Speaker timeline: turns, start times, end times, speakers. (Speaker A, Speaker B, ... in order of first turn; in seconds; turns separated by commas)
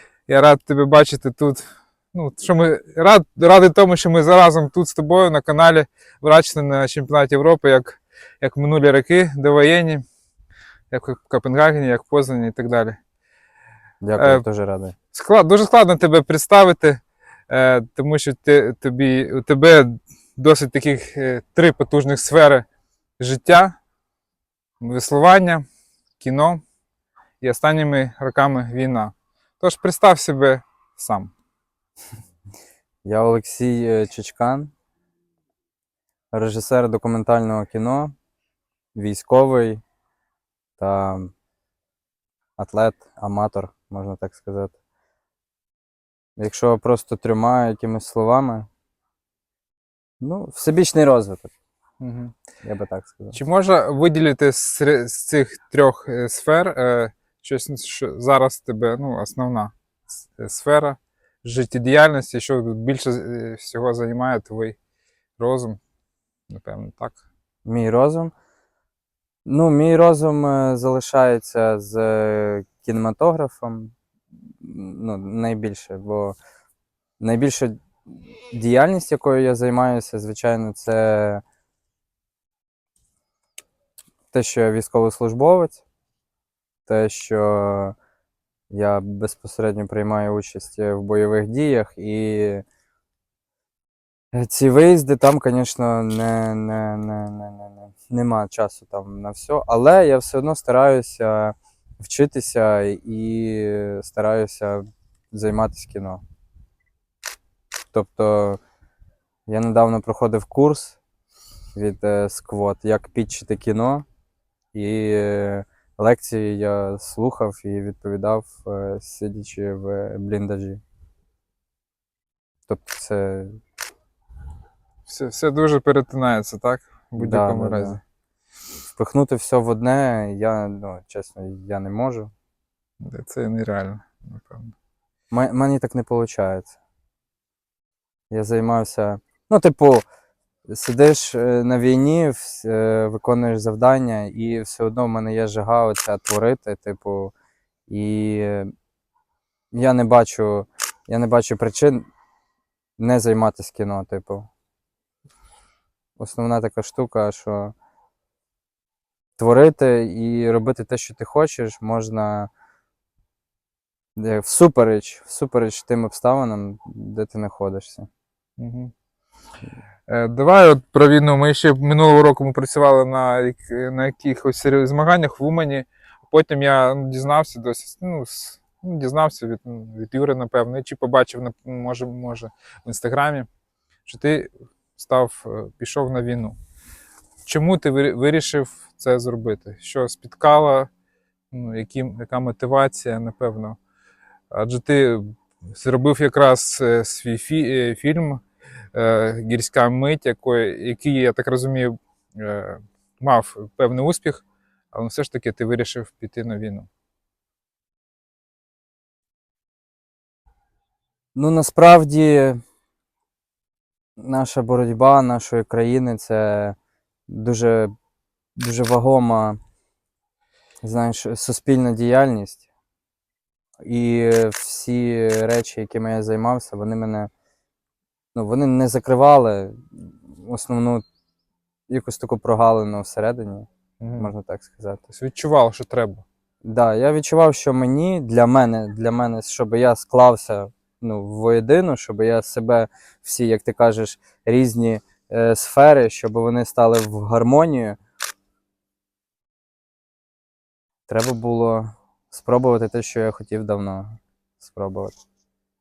Speaker A: 0.3-10.0, Speaker A: 10.9-13.0, Speaker B: 14.0-14.9, Speaker A: 14.2-14.4, Speaker A: 15.1-22.6, Speaker A: 23.2-23.8, Speaker A: 24.8-25.6, Speaker A: 26.2-26.6, Speaker A: 27.4-31.3, Speaker B: 33.0-34.7, Speaker B: 36.3-38.1, Speaker B: 38.9-39.8, Speaker B: 40.8-41.3, Speaker B: 42.6-44.8, Speaker B: 46.4-48.7, Speaker B: 50.2-51.5, Speaker A: 52.0-52.4, Speaker B: 52.6-53.4, Speaker A: 53.3-59.7, Speaker A: 60.2-64.8, Speaker A: 65.4-65.8, Speaker A: 66.5-67.2, Speaker B: 67.6-68.3, Speaker B: 69.5-73.9, Speaker B: 74.5-76.4, Speaker B: 77.2-81.4, Speaker B: 84.3-85.8, Speaker B: 86.9-87.9, Speaker B: 88.7-92.6, Speaker B: 94.3-106.2, Speaker B: 107.9-108.6, Speaker B: 109.5-111.0, Speaker B: 111.7-114.0, Speaker B: 114.7-120.8, Speaker B: 122.7-123.6, Speaker A: 125.1-128.0, Speaker B: 127.2-128.0, Speaker B: 128.9-132.3, Speaker A: 133.0-134.7, Speaker B: 135.3-136.8, Speaker B: 138.3-140.1, Speaker B: 140.7-147.3, Speaker B: 147.9-148.7, Speaker B: 149.7-152.1, Speaker B: 153.0-154.5, Speaker B: 156.2-157.7, Speaker B: 159.4-162.5, Speaker B: 164.2-168.1, Speaker A: 168.6-168.9, Speaker A: 170.1-183.5, Speaker A: 184.1-186.6, Speaker A: 187.4-190.9, Speaker A: 191.5-193.8, Speaker A: 194.5-198.4, Speaker A: 198.9-206.9, Speaker B: 211.3-212.6, Speaker B: 214.2-216.8, Speaker B: 217.3-217.9, Speaker B: 218.6-219.6, Speaker B: 220.8-222.6, Speaker B: 223.8-227.3, Speaker B: 228.3-231.0, Speaker B: 231.9-235.0, Speaker A: 234.0-234.3, Speaker A: 235.1-236.2, Speaker B: 236.6-248.0, Speaker B: 251.1-255.2